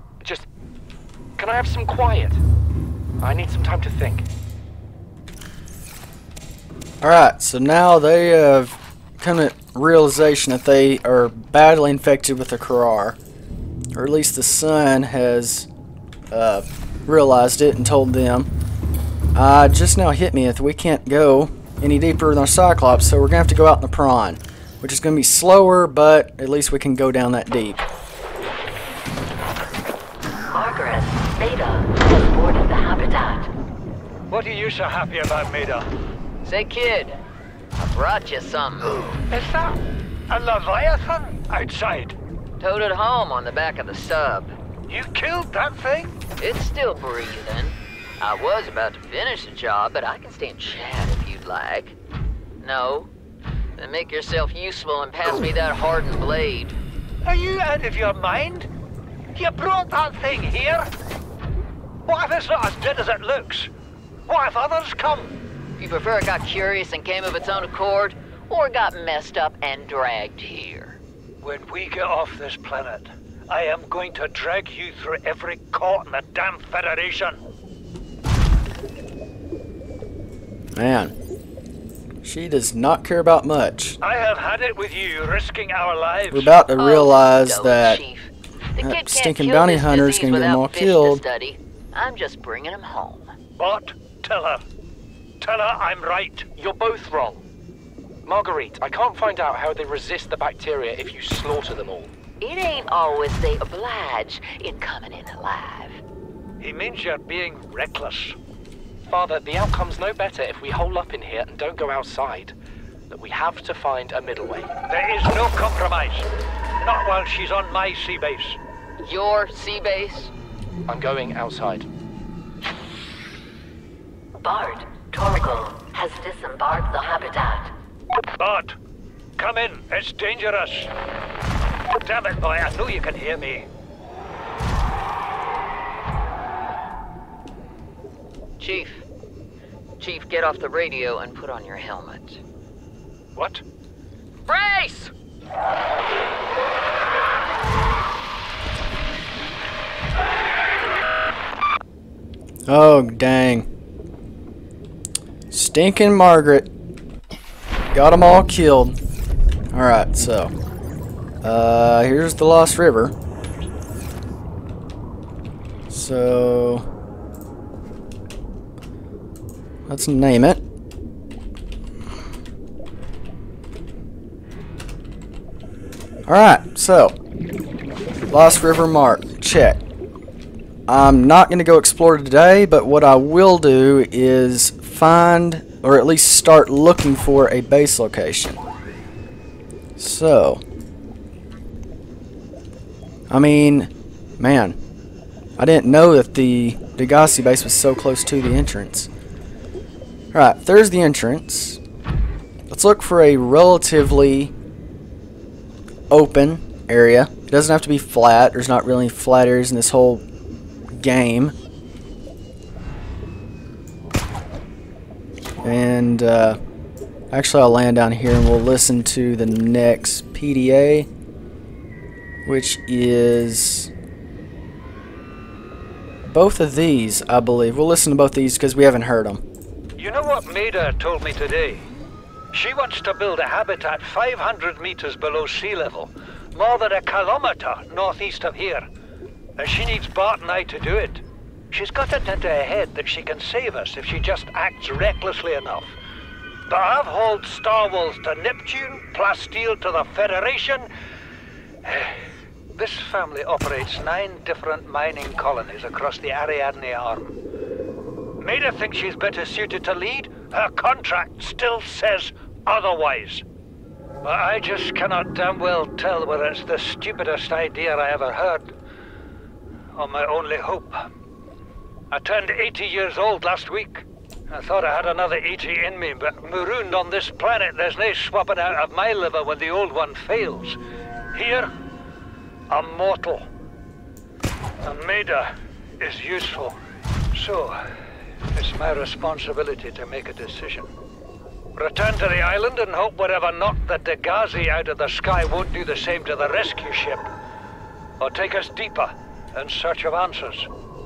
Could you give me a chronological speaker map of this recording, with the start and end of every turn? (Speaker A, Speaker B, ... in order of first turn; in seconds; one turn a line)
Speaker A: 0.2-0.5
Speaker A: 1.4-2.4
Speaker A: 3.2-4.2
Speaker B: 7.0-13.2
Speaker B: 13.9-15.7
Speaker B: 16.3-18.5
Speaker B: 19.3-27.8
Speaker C: 30.5-33.5
Speaker D: 34.3-35.9
Speaker E: 36.4-37.1
Speaker E: 37.8-39.2
Speaker D: 39.2-42.1
Speaker E: 42.6-44.5
Speaker D: 44.9-46.2
Speaker E: 46.4-51.9
Speaker E: 52.6-53.1
Speaker E: 53.8-56.8
Speaker D: 57.2-58.7
Speaker D: 59.3-60.9
Speaker D: 62.0-63.7
Speaker D: 64.3-65.4
Speaker E: 65.8-71.0
Speaker D: 71.4-77.4
Speaker B: 80.7-81.1
Speaker B: 82.2-84.0
Speaker D: 84.0-86.6
Speaker B: 86.3-88.0
Speaker E: 86.7-93.3
Speaker B: 88.8-91.2
Speaker D: 93.6-94.6
Speaker D: 95.4-96.5
Speaker A: 96.5-97.4
Speaker A: 98.2-102.1
Speaker E: 102.4-106.0
Speaker D: 106.6-108.4
Speaker A: 109.1-112.5
Speaker A: 113.1-114.7
Speaker D: 114.9-116.3
Speaker D: 116.8-118.6
Speaker E: 119.0-120.3
Speaker A: 120.8-121.9
Speaker C: 124.4-127.7
Speaker D: 128.3-128.8
Speaker D: 129.4-130.9
Speaker D: 132.0-133.7
Speaker E: 138.6-139.0
Speaker E: 140.0-142.4
Speaker E: 144.5-145.1
Speaker B: 152.7-153.7
Speaker B: 155.5-156.7
Speaker B: 157.9-158.9
Speaker B: 159.7-160.5
Speaker B: 161.4-163.1
Speaker B: 165.9-166.8
Speaker B: 169.9-170.6
Speaker B: 176.3-177.1
Speaker B: 178.3-179.8
Speaker B: 180.9-188.6
Speaker B: 190.0-190.6
Speaker B: 193.3-194.8
Speaker B: 195.6-199.1
Speaker B: 200.3-201.8
Speaker B: 202.7-204.5
Speaker B: 206.1-210.2
Speaker B: 210.9-211.5
Speaker B: 215.6-216.6
Speaker B: 217.3-221.1
Speaker B: 222.4-223.9
Speaker B: 226.2-229.4
Speaker D: 230.0-231.8
Speaker D: 232.5-238.8
Speaker D: 239.6-245.9
Speaker D: 246.7-250.9
Speaker D: 251.8-252.2
Speaker D: 252.7-257.4
Speaker D: 258.4-263.4
Speaker D: 264.2-268.7
Speaker D: 269.9-271.1
Speaker D: 272.1-280.8
Speaker D: 281.3-281.7
Speaker D: 282.7-283.5
Speaker D: 284.8-286.8
Speaker D: 287.3-287.8
Speaker D: 288.5-290.9
Speaker D: 291.7-297.3
Speaker D: 298.2-300.7